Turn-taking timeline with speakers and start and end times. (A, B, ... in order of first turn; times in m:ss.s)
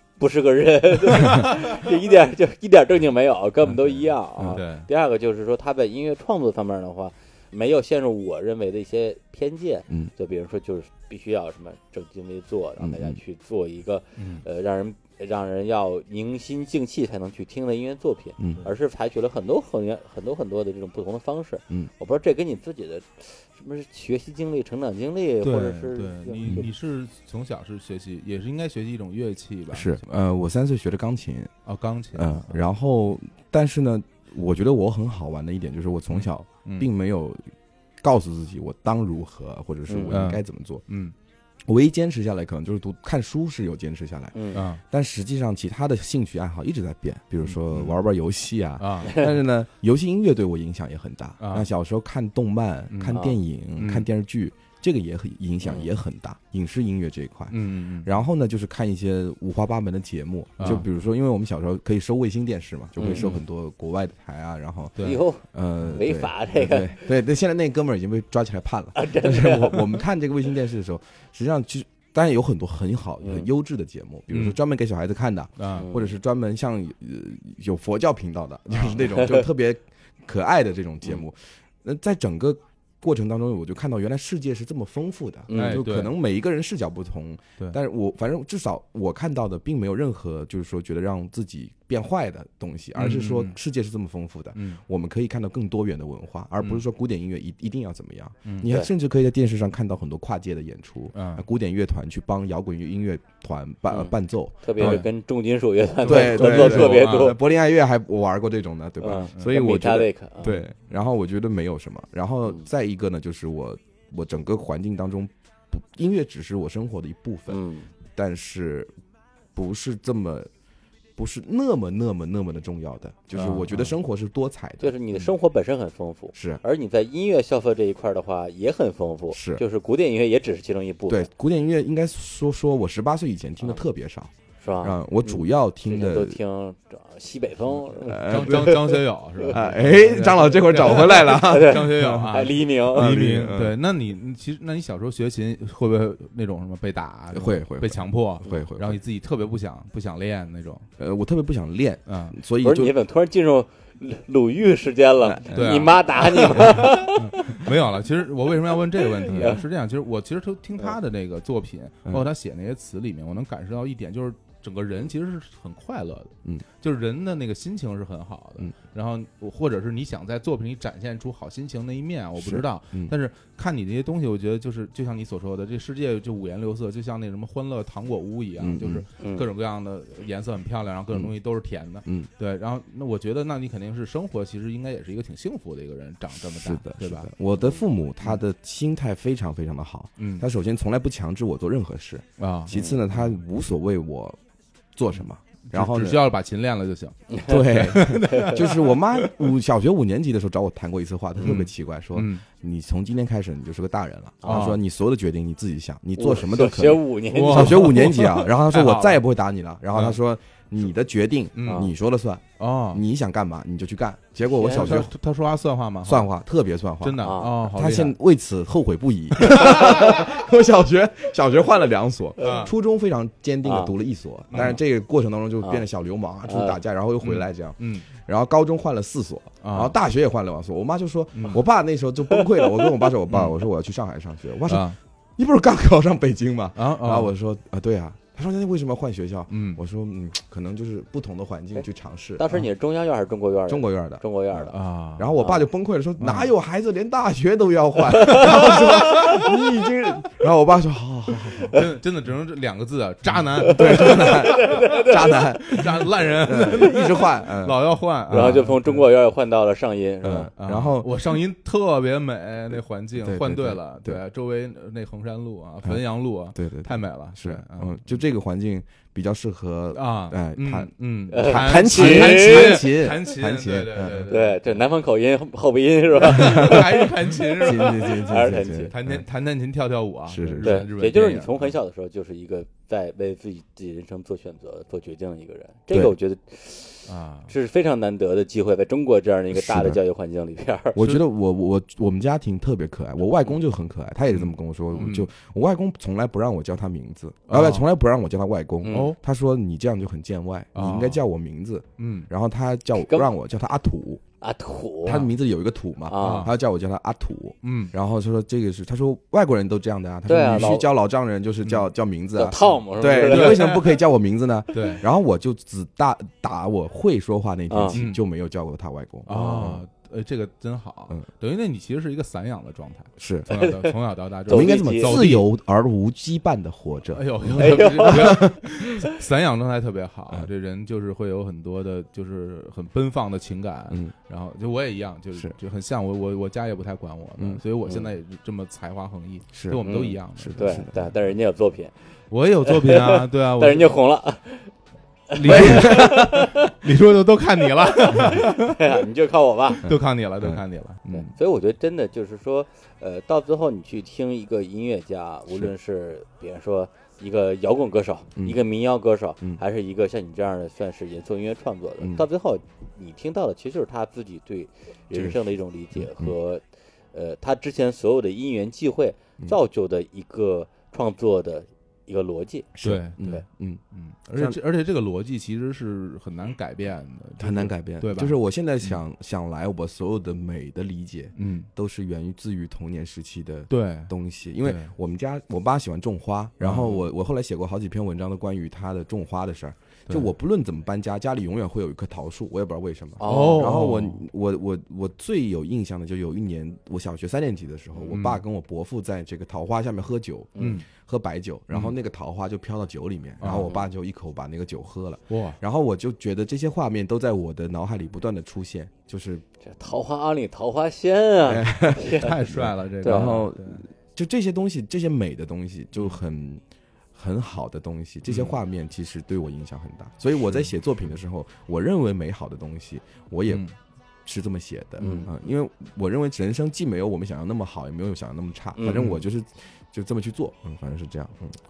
0:00.2-0:26.7 A
0:03.9-0:04.9 B
0:12.8-0:13.2 C
0:14.2-0:14.4 B
0:18.4-0:18.6 C
0:25.4-0:30.0 B
0:29.7-0:31.5 C
0:31.7-0:32.6 B
0:32.1-0:40.8 C
0:36.1-0:36.9 B
0:39.9-0:40.2 A
0:40.1-0:41.1 B
0:41.7-1:45.1 C
0:44.3-0:44.6 A
0:44.5-0:44.8 B
0:47.5-0:48.0 B
0:48.8-0:49.3 B
0:51.4-0:51.7 B
0:52.9-0:54.1 B
0:53.1-0:53.4 A
0:55.6-0:55.9 A
0:57.5-0:58.1 B
1:00.6-1:00.9 B
1:03.0-1:03.4 A
1:05.0-1:05.2 B
1:05.0-1:07.1 A
1:09.0-1:10.0 A
1:13.2-1:13.5 A
1:14.3-1:14.6 B
1:15.6-1:15.9 B
1:15.8-1:16.2 A
1:19.1-1:19.4 A
1:25.5-1:25.8 A
1:25.5-1:26.1 B
1:33.0-1:33.6 B
1:34.6-1:34.8 B
1:38.4-1:38.7 B
1:41.1-1:41.5 B
1:43.9-1:47.4 A
1:44.8-1:45.1 B
1:46.0-1:47.4 B
1:46.0-1:57.6 C
1:49.0-1:50.6 A
1:57.5-1:57.9 A
1:58.2-1:58.9 C
1:59.6-2:00.5 C
2:01.2-2:05.3 C
2:03.4-2:03.9 B
2:04.8-2:11.3 A
2:06.4-2:06.6 C
2:09.3-2:09.6 C
2:11.1-2:16.4 C
2:14.6-2:19.5 A
2:18.0-2:22.3 C
2:18.2-2:30.9 B
2:21.2-2:23.1 A
2:22.9-2:23.8 C
2:27.3-2:29.0 C
2:31.0-2:32.9 C
2:32.1-2:32.4 B
2:32.6-2:37.6 A
2:35.2-2:37.0 C
2:35.5-3:07.3 B
2:39.1-2:39.6 A
2:39.3-2:39.6 C
2:52.4-2:53.1 C
2:58.6-2:59.1 C
2:59.2-2:59.5 A
3:02.0-3:02.3 C
3:06.5-3:14.4 C
3:10.2-3:10.5 B
3:12.4-3:13.4 B
3:12.7-3:13.0 A
3:15.0-3:16.2 C
3:15.2-3:19.4 B
3:17.3-3:17.6 A
3:17.5-3:35.1 C
3:18.2-3:18.6 A
3:21.4-3:22.4 B
3:24.4-3:24.7 A
3:24.4-3:24.8 B
3:26.2-3:28.2 A
3:27.3-3:29.2 B
3:29.9-3:30.2 B
3:31.6-3:31.9 B
3:31.6-3:31.9 A
3:32.6-3:33.0 B
3:34.5-3:35.0 A
3:34.7-3:36.3 B
3:36.0-4:02.6 C
3:37.0-3:38.2 B
3:37.2-3:37.5 A
3:39.8-3:40.1 B
3:42.4-3:42.7 B
3:43.6-3:43.9 A
3:44.5-3:44.8 B
3:46.5-3:46.8 A
3:47.2-3:48.1 B
3:49.6-3:50.0 B
3:51.3-3:51.6 B
3:52.3-3:52.9 A
3:53.3-3:53.6 B
3:54.7-3:55.0 B
3:56.8-3:57.3 B
3:59.5-3:59.8 B
4:02.4-4:04.8 A
4:03.7-4:11.8 C
4:04.7-4:05.3 B
4:05.4-4:05.7 A
4:06.2-4:06.5 B
4:08.1-4:09.4 A
4:08.4-4:09.4 B
4:11.7-4:19.1 B
4:13.6-4:15.4 A
4:13.6-4:18.6 C
4:18.3-4:20.5 A
4:20.2-4:21.3 C
4:20.6-4:28.0 B
4:23.2-4:24.2 C
4:26.6-4:34.3 C
4:29.9-4:34.8 B
4:31.3-4:32.9 A
4:34.3-4:37.1 A
4:36.2-4:41.7 B
4:36.3-4:39.2 C
4:37.7-4:38.9 A
4:40.3-4:40.8 C
4:40.6-4:51.0 A
4:47.1-4:47.5 B
4:49.5-4:50.0 C
4:51.0-5:04.2 C
4:54.3-4:55.3 B
4:57.5-4:57.9 B
4:58.8-4:59.1 A
4:58.8-4:59.2 B
5:00.7-5:01.2 B
5:02.0-5:02.3 B
5:03.0-5:03.3 A
5:04.4-5:05.3 A
5:05.0-5:19.8 C
5:06.1-5:06.5 A
5:06.2-5:06.5 B
5:07.6-5:07.9 B
5:10.3-5:10.9 A
5:10.5-5:10.8 B
5:12.4-5:13.8 A
5:12.6-5:14.0 B
5:14.7-5:15.1 B
5:17.7-5:18.0 A
5:18.0-5:18.2 B
5:19.3-5:25.5 B
5:19.3-5:19.7 A
5:23.2-5:23.6 C
5:23.5-5:23.9 A
5:24.5-5:25.3 A
5:24.5-5:28.8 C
5:27.1-5:40.8 B
5:27.6-5:28.5 A
5:33.9-5:34.2 C
5:37.4-5:37.6 C
5:37.8-5:38.1 A
5:39.5-5:39.8 C
5:39.8-5:42.0 A
5:40.4-5:41.0 C
5:42.3-5:44.0 B
5:42.7-5:44.7 A
5:45.3-5:46.7 A
5:45.4-5:48.9 B
5:45.5-5:46.4 C
5:48.2-5:49.9 A
5:49.8-5:51.3 B
5:49.8-5:50.6 C
5:51.1-6:13.4 A
6:02.0-6:02.2 C
6:05.1-6:06.3 C
6:12.8-6:13.8 C
6:12.8-6:13.4 B
6:13.9-6:19.0 B
6:14.3-6:14.6 C
6:17.4-6:49.4 C
6:21.4-6:21.7 B
6:23.7-6:24.9 B
6:26.6-6:27.0 B
6:33.2-6:33.8 A
6:33.2-6:34.2 B
6:38.1-6:38.4 B
6:40.6-6:40.8 A
6:40.6-6:40.9 B
6:43.4-6:43.7 B
6:43.6-6:43.9 A
6:45.3-6:45.6 B
6:49.6-6:52.3 A
6:51.4-6:56.6 C
6:52.0-6:53.8 B
6:53.0-6:53.3 A
6:57.1-7:03.6 C
6:58.3-6:58.6 B
7:03.5-7:03.8 B
7:04.2-7:11.6 C
7:05.0-7:05.3 A
7:08.8-7:09.1 A
7:08.9-7:09.2 B